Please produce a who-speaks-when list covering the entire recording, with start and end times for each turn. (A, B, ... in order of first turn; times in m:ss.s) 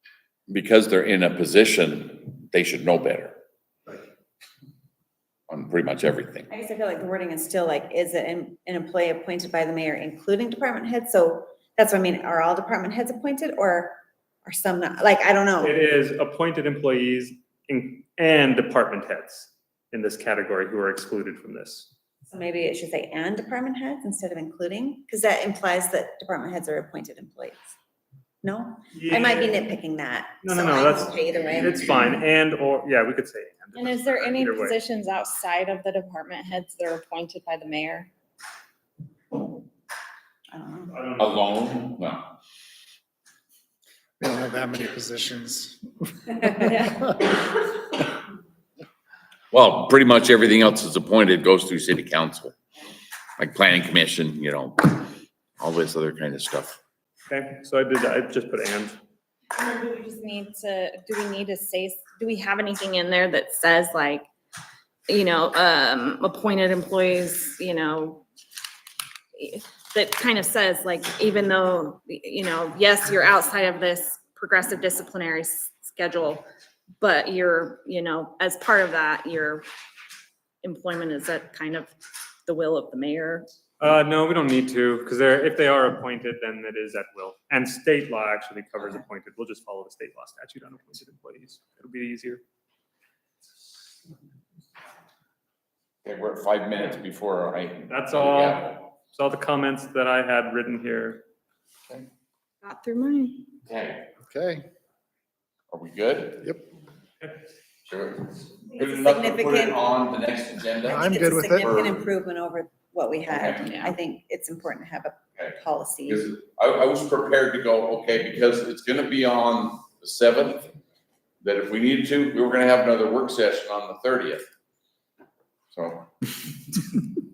0:00.5-0:03.4 A
0:05.5-0:06.5 A
0:06.5-0:15.8 B
0:15.6-0:21.9 C
0:22.3-0:27.7 B
0:28.4-0:32.1 B
0:28.9-0:29.6 C
0:30.4-0:34.8 C
0:33.8-0:38.1 D
0:40.5-0:41.0 B
0:40.9-0:41.2 C
0:41.2-0:42.2 A
0:44.2-0:47.3 E
0:49.5-0:52.6 A
0:53.4-0:55.1 A
0:55.6-0:56.8 A
0:57.3-0:59.0 C
0:59.6-1:04.3 D
1:05.1-1:08.2 D
1:09.4-1:16.4 D
1:17.0-1:19.6 D
1:20.6-1:21.9 D
1:22.5-1:23.5 D
1:23.8-1:32.4 C
1:36.0-1:38.8 A
1:37.9-1:41.2 C
1:42.6-1:43.4 D
1:43.7-1:44.1 A
1:44.3-1:44.7 E
1:45.7-1:46.5 A
1:47.9-1:52.0 A
1:48.7-1:49.8 B
1:50.8-1:51.8 E
1:51.0-1:56.2 B
1:53.3-1:53.6 A
1:53.6-1:54.0 D
1:55.4-2:00.7 A
2:01.4-2:04.4 A
2:05.7-2:06.1 A